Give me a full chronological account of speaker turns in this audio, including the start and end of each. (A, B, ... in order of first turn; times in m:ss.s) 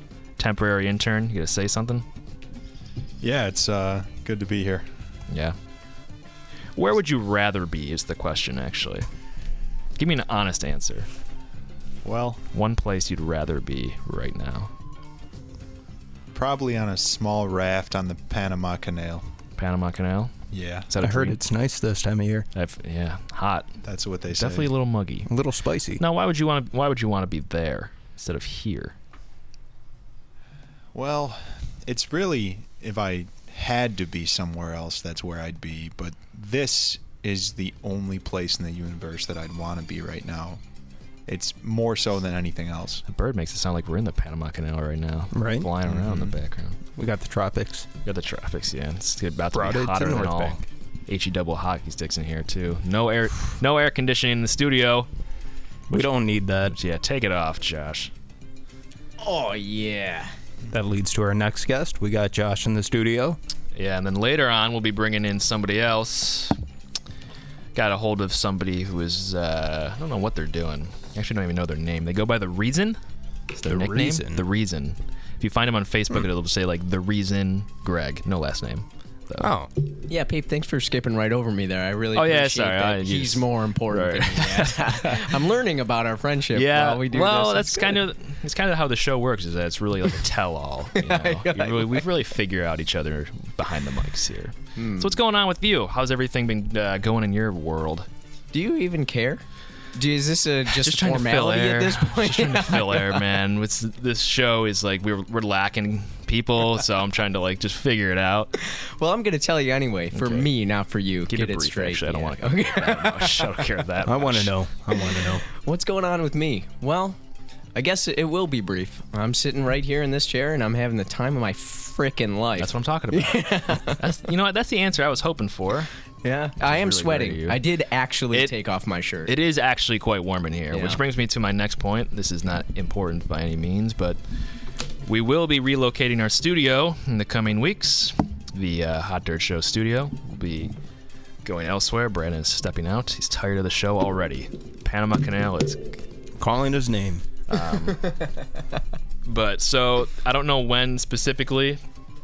0:00.4-0:02.0 A
0:03.2-0:04.9 B
0:05.3-0:05.6 A
0:06.8-0:09.1 A
0:10.0-0:11.1 A
0:12.0-0:12.4 B
0:12.5-0:14.7 A
0:16.3-0:19.2 B
0:19.6-0:20.3 A
0:20.5-0:20.9 B
0:20.9-0:21.4 A
0:21.0-0:22.5 C
0:22.6-0:23.7 A
0:23.8-0:24.7 B
0:24.4-0:25.3 A
0:25.3-0:26.0 C
0:26.0-0:29.0 A
0:30.9-0:40.6 B
0:41.3-0:43.0 B
0:43.1-0:46.8 A
0:45.3-0:45.7 C
0:45.9-0:46.4 B
0:47.0-0:47.9 C
0:48.0-0:55.1 A
0:49.5-0:50.6 C
0:55.9-0:56.8 C
0:56.6-0:58.1 A
0:59.2-1:00.3 D
1:00.7-1:03.4 C
1:03.8-1:06.6 A
1:07.8-1:13.0 A
1:13.5-1:19.5 A
1:13.7-1:14.4 C
1:19.4-1:19.7 C
1:20.1-1:28.0 D
1:22.1-1:25.4 A
1:26.5-1:38.1 A
1:31.0-1:32.1 D
1:34.8-1:35.2 D
1:38.5-1:39.4 D
1:40.0-1:43.2 D
1:40.7-1:48.5 A
1:48.6-1:53.7 D
1:50.1-1:50.5 A
1:51.3-1:54.6 A
1:54.0-1:55.4 C
1:55.1-1:57.2 D
1:57.8-2:04.0 D
2:02.6-2:05.9 A
2:06.2-2:09.3 D
2:06.6-2:07.6 A
2:09.3-2:14.2 A
2:10.7-2:11.0 D
2:15.0-2:20.7 A
2:21.4-2:26.0 A
2:26.4-2:27.2 C
2:27.5-2:28.1 A
2:29.2-2:31.8 A